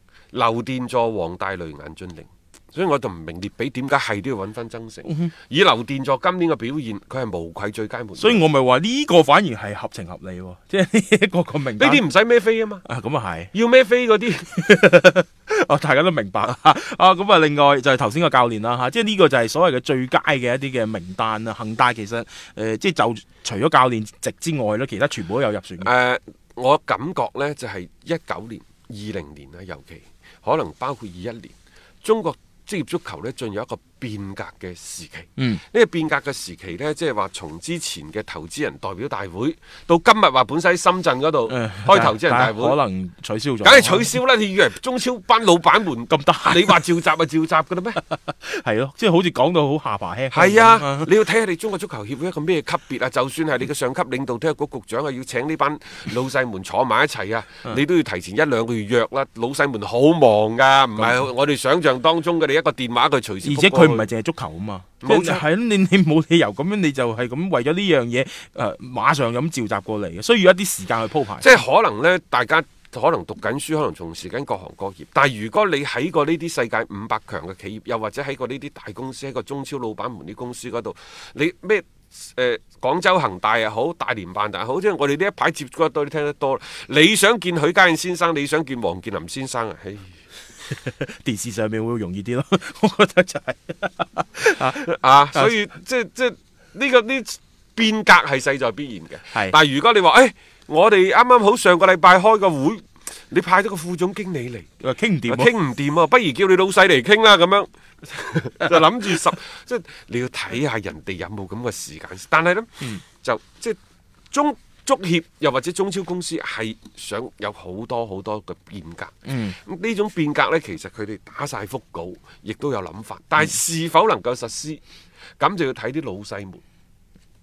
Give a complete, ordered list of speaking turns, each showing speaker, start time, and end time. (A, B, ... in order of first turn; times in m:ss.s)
0:00.3-0:08.4 A
0:05.0-0:05.3 B
0:08.2-0:12.0 B
0:11.8-0:12.8 A
0:12.8-0:13.5 B
0:13.5-0:14.5 A
0:14.5-0:25.9 B
0:25.8-0:42.8 A
0:35.4-0:35.6 B
0:41.5-0:44.1 B
0:43.6-0:48.0 A
0:46.1-0:46.8 B
0:48.3-0:51.1 B
0:50.3-1:04.1 A
1:01.0-1:01.2 B
1:03.4-1:11.5 B
1:05.0-1:05.4 A
1:11.4-1:30.1 A
1:30.7-1:35.5 B
1:34.8-1:44.7 A
1:44.8-1:45.5 B
1:45.3-1:53.8 A
1:54.3-2:04.8 A
1:59.2-1:59.6 B
2:05.4-2:06.6 A